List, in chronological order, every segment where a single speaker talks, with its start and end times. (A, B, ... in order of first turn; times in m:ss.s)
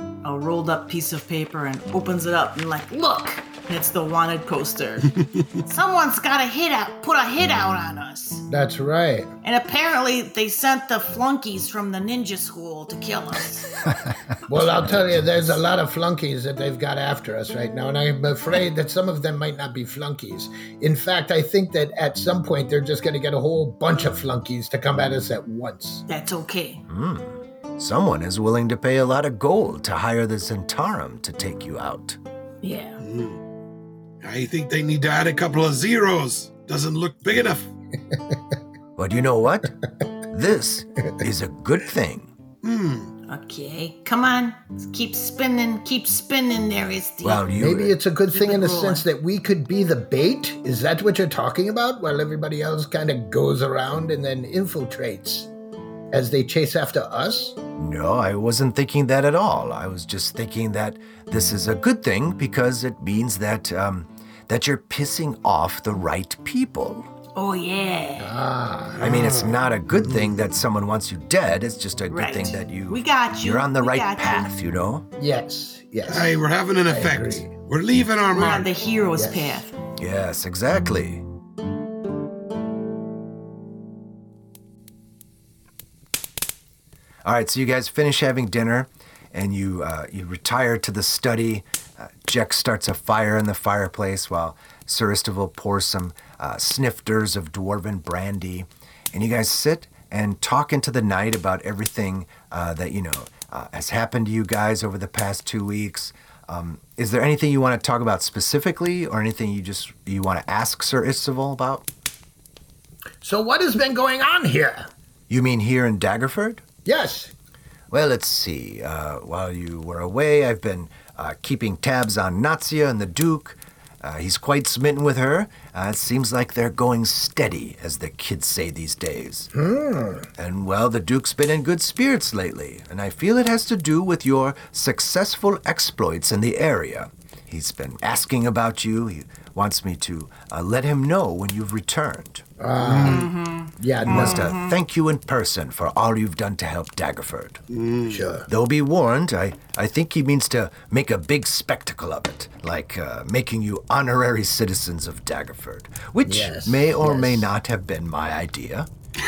0:00.2-0:08.4 A
0:08.5-0:09.3 B
0:09.4-0:13.8 A
0:14.5-0:26.0 B
0:26.1-0:26.8 A
0:26.9-0:32.2 C
0:32.6-0:33.0 A
0:33.0-0:33.4 D
0:34.2-0:37.7 D
0:39.0-0:39.7 C
0:40.3-0:42.3 C
0:42.6-0:43.1 D
0:43.3-0:47.4 A
0:47.2-0:48.0 C
0:47.6-0:55.5 B
0:48.3-0:49.0 A
0:56.1-0:57.6 B
0:57.8-1:07.0 C
1:07.4-1:08.4 A
1:08.2-1:09.0 B
1:09.0-1:10.3 D
1:09.0-1:15.0 C
1:12.1-1:14.5 A
1:15.2-1:17.5 B
1:16.1-1:18.7 D
1:18.3-1:19.7 A
1:19.2-1:19.6 B
1:20.0-1:21.2 C
1:27.2-1:51.8 C
1:53.2-1:54.9 B
1:55.3-1:56.6 C
1:56.8-1:57.3 B
1:57.9-2:09.5 C
2:09.5-2:10.3 B
2:10.4-2:22.4 C
2:22.6-2:24.5 B
2:22.8-2:23.3 D
2:23.0-2:24.8 A
2:24.0-2:27.6 C
2:27.7-2:28.3 D
2:28.1-2:28.5 B
2:28.5-2:38.9 C
2:36.2-2:37.5 B